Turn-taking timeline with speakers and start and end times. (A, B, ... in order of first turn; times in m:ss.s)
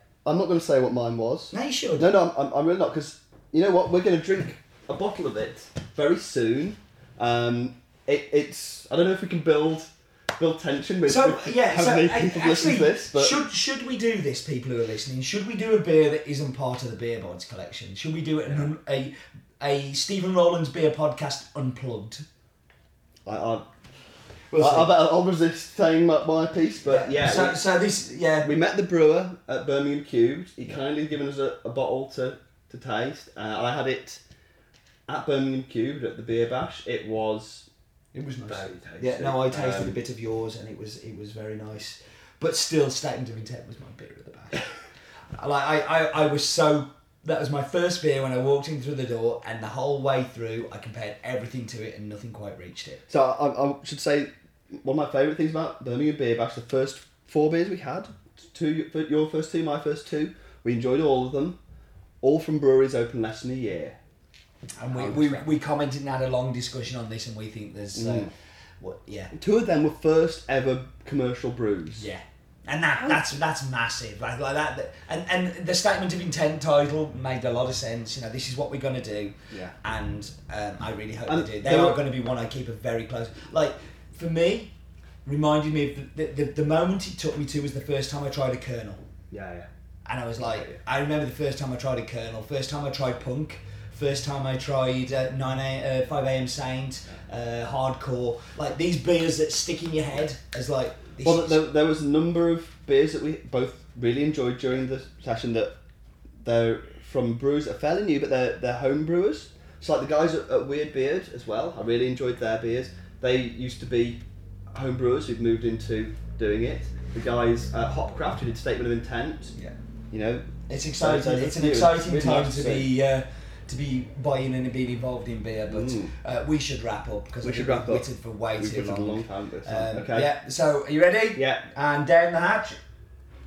0:00.2-0:13.4 A
0:01.5-0:02.1 B
0:11.1-0:22.2 B
0:23.3-0:23.7 A
0:24.5-0:24.9 B
0:24.6-0:27.6 A
0:26.9-0:28.5 B
0:28.4-0:34.2 A
0:35.1-0:37.7 A
0:38.1-0:44.7 B
0:38.5-0:40.0 A
0:45.3-0:53.0 B
0:53.1-1:01.6 A
1:02.2-1:04.0 A
1:04.8-1:09.3 B
1:04.9-1:05.5 A
1:08.0-1:08.3 A
1:09.3-1:12.1 A
1:11.9-1:24.7 B
1:21.3-1:22.0 A
1:25.2-1:29.0 B
1:29.3-1:29.7 A
1:30.1-1:41.6 B
1:30.4-1:30.8 A
1:41.2-1:45.7 A
1:46.4-1:54.2 A
1:54.7-1:59.6 A
2:00.1-2:00.5 A
2:00.7-2:12.8 B
2:01.0-2:02.9 A
2:05.7-2:06.1 A
2:07.4-2:10.3 A
2:11.4-2:11.6 A